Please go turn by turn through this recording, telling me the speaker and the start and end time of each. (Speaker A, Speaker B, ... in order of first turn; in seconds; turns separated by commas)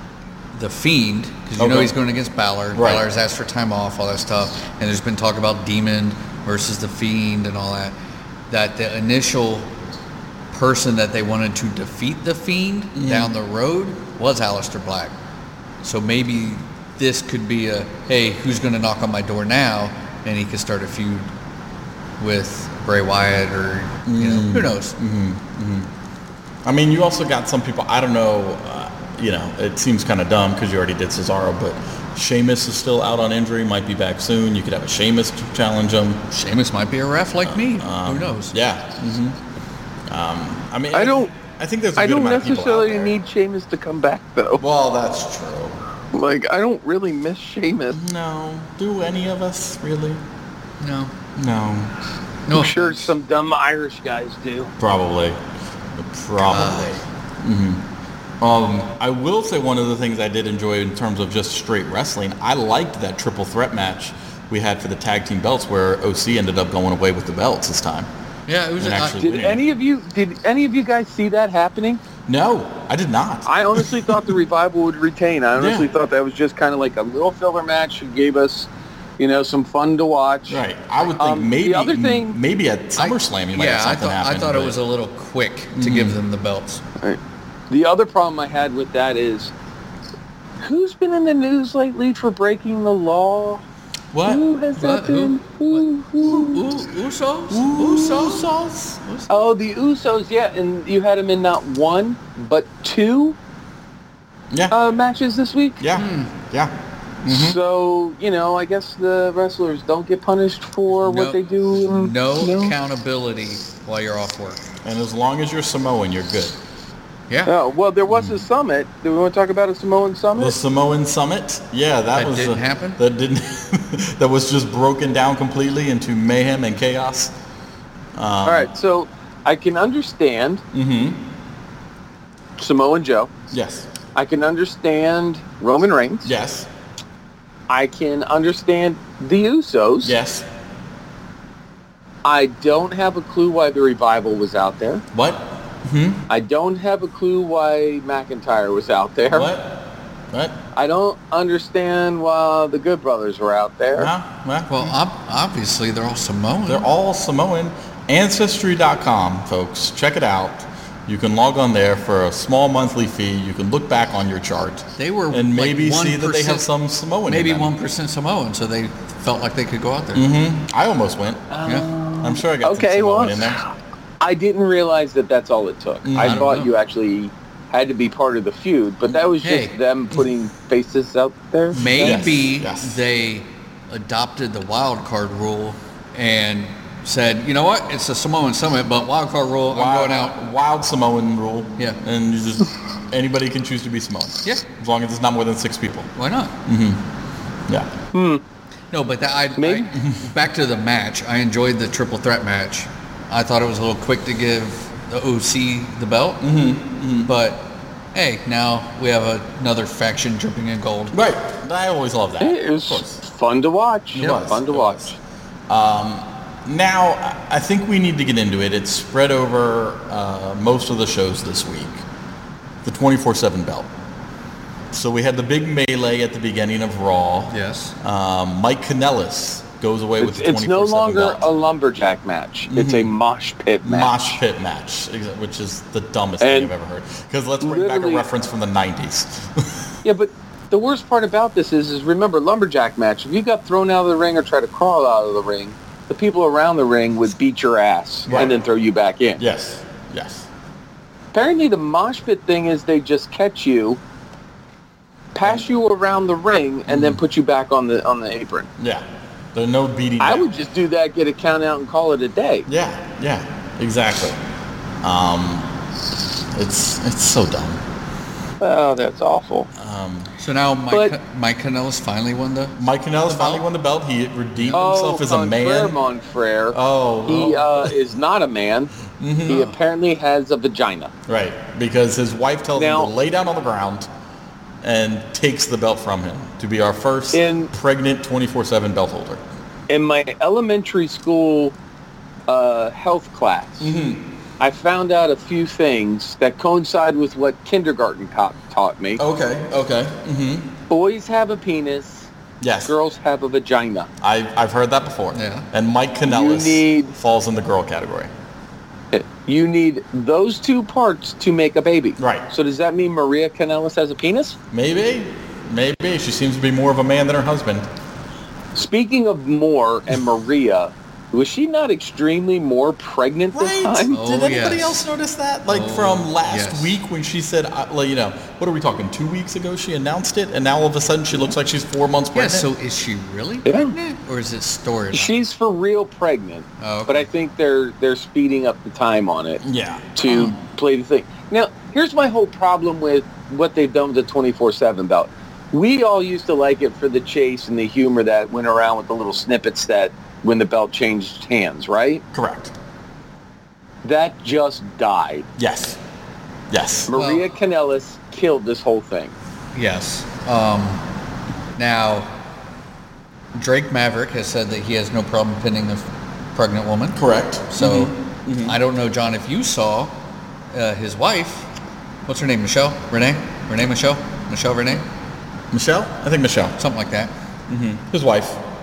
Speaker A: 0.5-7.9, Speaker B: 1.6-1.9, Speaker B: 2.7-3.0, Speaker A: 8.5-9.7, Speaker A: 10.5-15.1, Speaker B: 12.9-13.3, Speaker A: 15.8-21.3, Speaker A: 22.2-24.9, Speaker B: 24.1-25.9, Speaker B: 26.6-36.2, Speaker A: 36.3-38.6, Speaker B: 37.4-39.4, Speaker B: 40.1-43.1, Speaker C: 40.9-41.3, Speaker C: 42.0-44.6, Speaker B: 44.6-45.8, Speaker C: 46.1-48.0, Speaker B: 47.9-50.2, Speaker A: 50.8-51.1, Speaker B: 51.4-51.9, Speaker A: 52.5-53.1, Speaker C: 52.5-54.7, Speaker B: 54.8-55.4, Speaker B: 56.0-57.8, Speaker A: 56.4-57.0, Speaker B: 58.4-68.1, Speaker A: 68.5-69.2, Speaker B: 68.8-69.6, Speaker C: 69.2-72.0, Speaker B: 72.2-74.1, Speaker C: 73.5-78.7, Speaker B: 75.5-75.9, Speaker C: 79.2-82.4, Speaker B: 80.5-84.8, Speaker A: 83.0-86.8, Speaker B: 85.7-86.2, Speaker C: 87.7-89.5, Speaker C: 90.6-93.6, Speaker B: 94.1-94.4, Speaker C: 94.2-96.6, Speaker A: 94.8-98.5, Speaker B: 97.5-99.0, Speaker A: 99.0-99.4, Speaker C: 99.3-103.4, Speaker B: 104.5-104.8, Speaker C: 104.7-105.8, Speaker B: 105.8-107.6, Speaker A: 105.9-106.3, Speaker C: 107.3-112.8, Speaker A: 110.9-114.6, Speaker B: 114.8-116.6, Speaker C: 117.5-120.5, Speaker B: 118.1-118.4, Speaker B: 120.3-127.3, Speaker A: 122.1-123.0, Speaker B: 128.2-128.7, Speaker C: 128.4-130.6, Speaker B: 130.7-131.2, Speaker C: 132.6-133.3, Speaker B: 133.5-133.9, Speaker C: 134.2-136.3, Speaker B: 136.2-136.7, Speaker C: 137.7-140.2, Speaker B: 140.0-140.4, Speaker C: 142.2-145.0, Speaker B: 145.1-146.2, Speaker C: 146.3-149.5, Speaker B: 149.3-150.6, Speaker C: 150.7-154.1, Speaker B: 153.9-154.9, Speaker A: 154.7-156.8, Speaker B: 156.7-167.7, Speaker A: 165.0-166.7, Speaker A: 167.2-170.2, Speaker B: 170.1-171.5, Speaker C: 171.5-173.6, Speaker B: 172.2-173.6, Speaker C: 174.2-182.2, Speaker B: 176.1-176.5, Speaker A: 176.2-176.7, Speaker A: 179.4-179.7, Speaker A: 181.7-190.3, Speaker B: 181.8-183.0, Speaker B: 189.7-196.1, Speaker A: 196.2-196.5, Speaker B: 196.6-197.0, Speaker C: 198.1-198.4, Speaker A: 198.9-206.5, Speaker C: 199.6-199.9, Speaker B: 206.4-207.3, Speaker A: 207.2-211.2, Speaker B: 211.1-213.2, Speaker C: 212.4-215.2, Speaker B: 214.1-215.0, Speaker B: 215.7-222.0, Speaker B: 222.8-223.9, Speaker B: 224.9-231.5, Speaker A: 227.5-227.9, Speaker C: 230.2-234.4, Speaker B: 232.7-233.1, Speaker B: 233.8-239.9, Speaker C: 236.4-236.7, Speaker C: 237.6-238.2, Speaker C: 240.0-249.4, Speaker B: 248.3-248.6, Speaker B: 249.4-250.5, Speaker C: 251.3-254.0, Speaker C: 255.3-258.7, Speaker B: 256.9-257.2, Speaker B: 258.8-260.5, Speaker C: 260.2-262.6, Speaker B: 262.7-264.4, Speaker B: 265.0-265.7, Speaker B: 266.5-267.8, Speaker C: 268.6-269.7, Speaker B: 269.7-270.3, Speaker A: 270.4-273.6, Speaker B: 272.8-276.0, Speaker C: 274.7-278.9, Speaker B: 276.7-277.9, Speaker B: 279.1-279.7, Speaker C: 279.5-281.1, Speaker B: 281.3-284.1, Speaker C: 282.8-283.1, Speaker B: 284.8-289.4, Speaker C: 287.3-287.7, Speaker C: 289.9-291.8, Speaker C: 292.5-293.9, Speaker B: 293.8-294.2, Speaker C: 294.6-299.2, Speaker B: 299.2-300.7, Speaker C: 300.9-302.3, Speaker B: 302.6-302.9, Speaker C: 302.8-304.1, Speaker B: 304.2-308.3, Speaker A: 305.3-305.7, Speaker C: 306.2-307.1, Speaker C: 309.1-314.6, Speaker B: 312.2-312.5, Speaker B: 314.7-317.9, Speaker C: 318.7-324.1, Speaker B: 323.5-332.7, Speaker A: 324.1-325.0, Speaker A: 325.7-327.0, Speaker A: 332.3-335.3, Speaker C: 333.6-333.9, Speaker C: 335.1-339.6, Speaker A: 336.8-337.2, Speaker B: 339.6-340.5, Speaker C: 340.1-352.2, Speaker B: 352.3-352.7, Speaker C: 354.0-355.5, Speaker B: 355.6-356.0, Speaker B: 356.7-357.1, Speaker C: 357.1-359.3, Speaker A: 357.1-357.5, Speaker A: 359.7-361.0, Speaker A: 361.8-362.3, Speaker A: 363.5-370.1, Speaker B: 367.1-368.8, Speaker A: 370.7-371.7, Speaker A: 372.2-375.0, Speaker B: 375.7-376.8, Speaker A: 376.8-377.3, Speaker B: 377.7-378.6